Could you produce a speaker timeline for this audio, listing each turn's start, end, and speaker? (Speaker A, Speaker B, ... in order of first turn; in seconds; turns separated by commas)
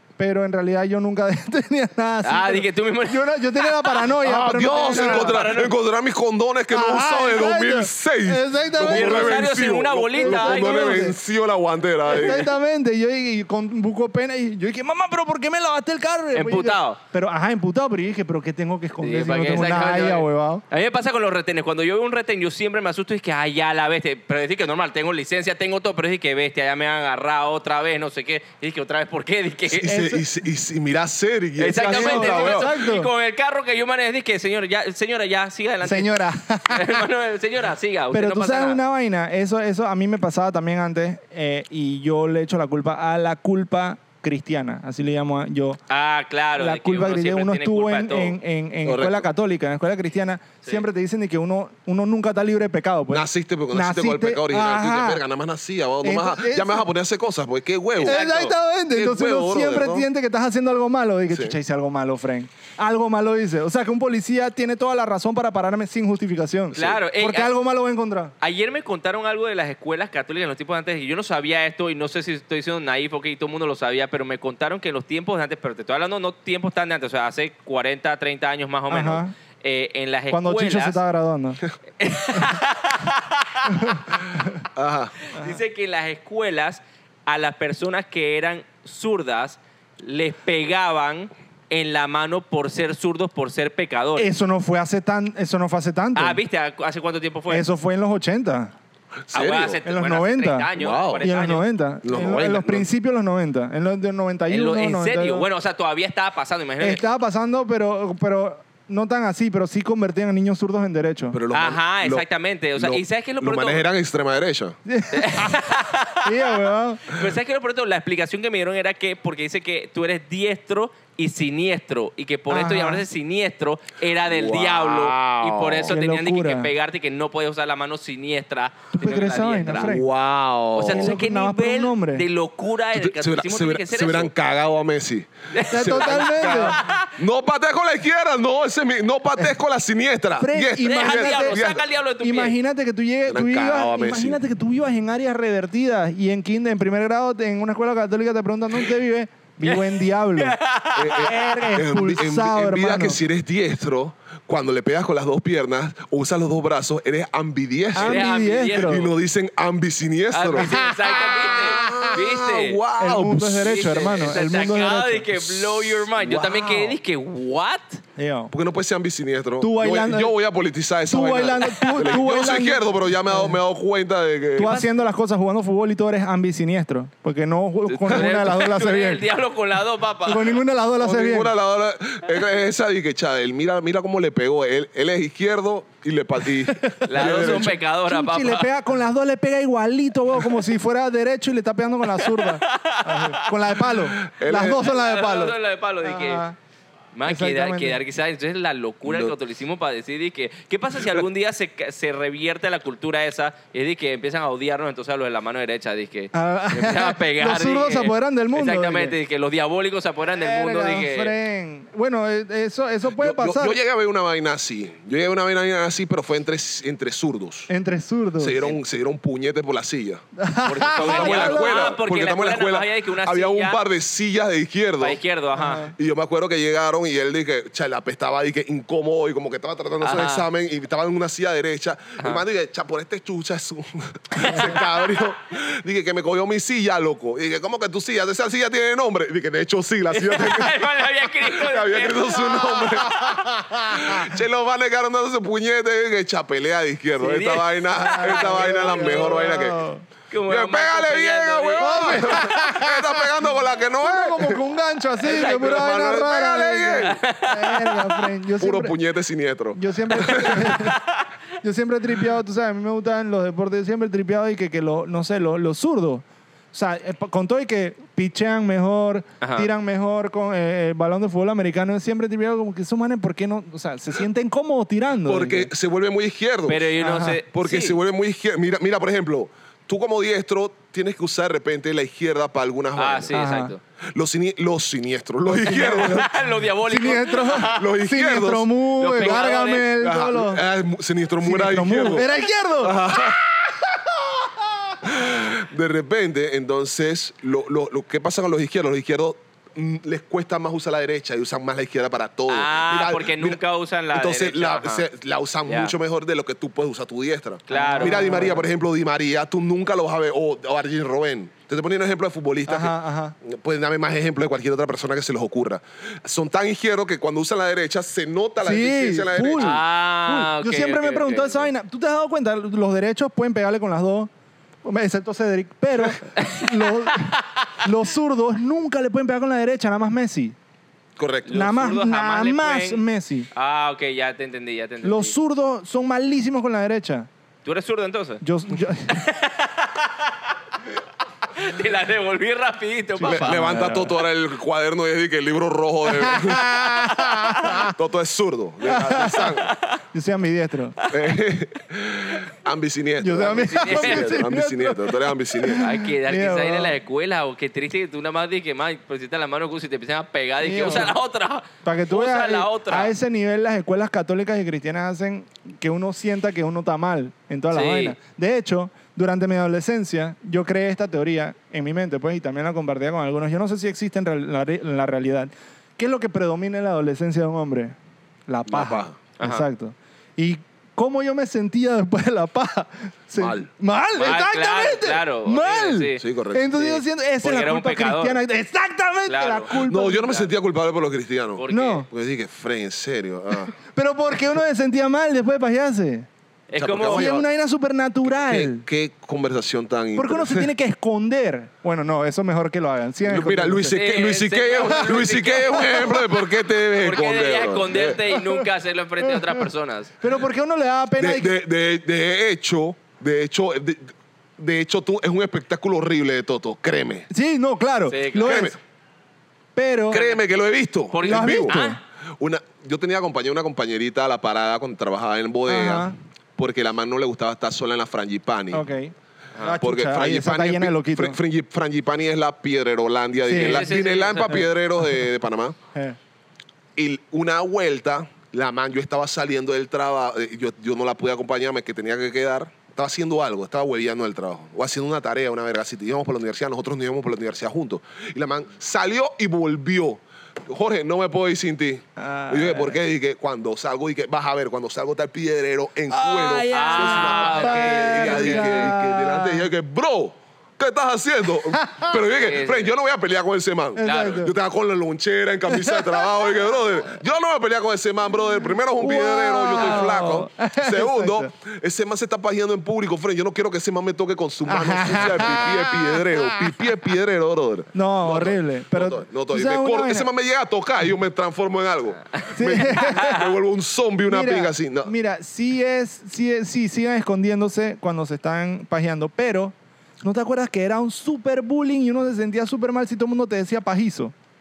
Speaker A: 0.2-5.5, Speaker B: 2.2-4.1, Speaker C: 4.2-12.5, Speaker B: 4.8-5.7, Speaker A: 6.7-9.5, Speaker B: 8.8-11.1, Speaker A: 10.1-11.2, Speaker A: 12.1-20.6, Speaker B: 16.3-17.0, Speaker B: 19.0-30.1, Speaker C: 29.7-32.7, Speaker B: 31.6-36.1, Speaker A: 31.8-33.1, Speaker A: 35.8-37.0, Speaker B: 36.7-38.8, Speaker A: 38.1-45.8, Speaker B: 45.9-48.4, Speaker A: 46.6-55.2, Speaker C: 48.8-49.2, Speaker C: 53.1-58.2, Speaker A: 56.0-56.9, Speaker B: 58.0-58.5, Speaker A: 58.0-68.3, Speaker C: 58.9-60.1, Speaker C: 61.3-61.5, Speaker B: 66.7-67.5, Speaker B: 68.4-81.0, Speaker A: 78.9-79.3, Speaker A: 80.3-81.6, Speaker B: 82.0-84.0, Speaker A: 83.7-84.6, Speaker C: 84.7-85.1, Speaker B: 85.3-94.3, Speaker A: 94.2-96.4, Speaker B: 96.2-97.7, Speaker A: 97.5-98.7, Speaker C: 99.2-99.8, Speaker B: 99.3-101.7, Speaker A: 99.8-100.7, Speaker C: 100.8-101.3, Speaker A: 101.2-105.5, Speaker C: 102.0-102.9, Speaker B: 104.5-107.0, Speaker A: 106.8-111.4, Speaker C: 111.3-114.8, Speaker B: 111.5-113.8, Speaker A: 114.8-115.6, Speaker B: 115.1-129.9, Speaker A: 116.2-117.1, Speaker A: 122.5-123.0, Speaker C: 124.2-125.9, Speaker A: 125.9-126.7, Speaker A: 128.9-130.1, Speaker C: 129.7-131.2, Speaker B: 130.7-134.3, Speaker A: 130.9-132.2, Speaker C: 132.9-141.8, Speaker B: 135.5-137.1, Speaker A: 135.7-136.8, Speaker A: 140.4-141.7, Speaker B: 140.8-142.6, Speaker A: 142.2-150.6, Speaker C: 143.3-144.4, Speaker B: 149.6-151.8, Speaker C: 150.9-164.4, Speaker A: 151.1-153.2, Speaker A: 157.9-159.1, Speaker B: 157.9-159.0, Speaker B: 160.3-162.8, Speaker A: 160.6-162.1, Speaker A: 163.0-165.3, Speaker B: 163.6-168.0, Speaker C: 165.4-167.0, Speaker A: 168.2-168.5, Speaker C: 168.5-174.8, Speaker A: 169.6-170.3, Speaker A: 171.1-173.6, Speaker B: 171.8-172.2, Speaker A: 174.6-179.2, Speaker B: 178.0-180.6, Speaker C: 178.1-178.3, Speaker A: 180.2-181.5, Speaker C: 181.0-187.8, Speaker A: 186.7-196.6, Speaker B: 187.1-188.7, Speaker B: 192.1-193.5, Speaker C: 194.2-194.9, Speaker B: 194.6-196.4, Speaker B: 197.1-211.3, Speaker A: 197.2-198.0, Speaker C: 199.1-199.3, Speaker A: 206.3-209.1, Speaker A: 210.3-213.8, Speaker C: 213.1-217.7, Speaker A: 217.7-218.6, Speaker C: 218.4-220.2, Speaker A: 220.4-221.9, Speaker B: 220.6-223.8, Speaker C: 220.9-225.2, Speaker B: 225.0-225.9, Speaker A: 225.5-225.9, Speaker C: 225.9-240.9, Speaker B: 230.0-230.5, Speaker B: 234.4-234.9, Speaker B: 240.1-243.4, Speaker C: 241.4-249.8, Speaker A: 243.1-244.3, Speaker B: 247.2-249.5, Speaker A: 248.0-250.0, Speaker B: 250.3-252.4, Speaker C: 250.5-254.6, Speaker A: 251.8-253.3, Speaker A: 254.0-258.9, Speaker C: 255.2-257.2, Speaker B: 257.0-258.2, Speaker C: 258.6-260.9, Speaker A: 259.7-261.0, Speaker B: 260.2-261.2, Speaker A: 261.6-275.7, Speaker B: 269.4-269.7, Speaker C: 275.2-276.9, Speaker B: 276.7-278.0, Speaker A: 277.0-277.4, Speaker C: 277.5-283.4, Speaker B: 282.9-283.8, Speaker A: 283.3-283.7, Speaker C: 284.1-286.3, Speaker A: 285.4-286.3, Speaker B: 285.6-287.9, Speaker A: 286.8-290.6, Speaker C: 287.6-288.7, Speaker B: 289.0-289.9, Speaker C: 290.0-292.3, Speaker A: 291.4-293.2, Speaker C: 292.8-293.4, Speaker C: 295.0-303.6, Speaker B: 302.5-305.1, Speaker C: 304.1-319.8, Speaker B: 305.7-305.9, Speaker B: 307.7-308.5, Speaker A: 307.7-308.6, Speaker A: 312.7-313.3, Speaker A: 318.6-324.3, Speaker B: 319.6-321.7, Speaker A: 324.8-330.6, Speaker B: 326.4-327.6, Speaker C: 331.2-331.5, Speaker B: 331.5-335.3, Speaker A: 331.5-333.5, Speaker A: 335.0-337.3, Speaker B: 337.6-338.4, Speaker A: 338.4-339.2, Speaker B: 339.1-340.5, Speaker B: 341.5-343.9, Speaker A: 343.2-344.1, Speaker C: 343.2-346.8, Speaker A: 346.1-347.9, Speaker C: 347.8-349.7, Speaker A: 348.8-349.6, Speaker B: 349.4-350.0, Speaker A: 350.1-351.0, Speaker B: 351.0-351.3, Speaker C: 351.1-355.9, Speaker A: 353.2-356.9, Speaker B: 353.5-354.4, Speaker B: 355.7-363.1, Speaker A: 360.6-361.2, Speaker A: 361.8-377.9, Speaker B: 367.7-368.2, Speaker A: 378.5-390.4, Speaker C: 378.7-379.2, Speaker B: 379.4-379.6, Speaker C: 383.4-383.7, Speaker B: 384.2-386.2, Speaker C: 386.1-387.0, Speaker B: 387.4-388.4, Speaker B: 389.3-390.4, Speaker C: 389.8-393.7, Speaker B: 391.6-392.0, Speaker A: 391.7-392.1, Speaker A: 393.9-396.3, Speaker B: 396.7-397.4, Speaker C: 396.8-397.4, Speaker A: 397.1-398.8, Speaker C: 398.3-400.7, Speaker A: 400.1-404.0, Speaker C: 403.2-408.2, Speaker B: 403.9-406.2, Speaker A: 405.7-406.2, Speaker B: 406.9-410.1, Speaker A: 408.3-408.6, Speaker A: 410.2-411.5, Speaker C: 411.2-417.3, Speaker A: 417.3-418.8, Speaker B: 418.1-418.7, Speaker C: 418.3-418.8, Speaker A: 419.8-420.2, Speaker C: 420.1-421.8, Speaker B: 420.1-420.4, Speaker B: 421.1-422.0, Speaker A: 421.2-422.0, Speaker C: 422.4-428.8, Speaker A: 425.7-426.1, Speaker A: 428.7-431.4, Speaker C: 429.8-435.8, Speaker A: 433.4-433.9, Speaker B: 433.5-434.7, Speaker C: 436.9-485.1, Speaker A: 452.2-453.0, Speaker A: 456.1-459.7, Speaker B: 456.7-458.9, Speaker A: 461.7-462.2, Speaker B: 462.3-462.9, Speaker A: 463.9-464.5, Speaker B: 464.0-464.4, Speaker A: 465.7-466.3, Speaker A: 469.0-471.5, Speaker A: 474.7-476.7, Speaker A: 477.9-480.3, Speaker B: 482.4-483.4, Speaker A: 482.5-483.4, Speaker A: 484.2-494.3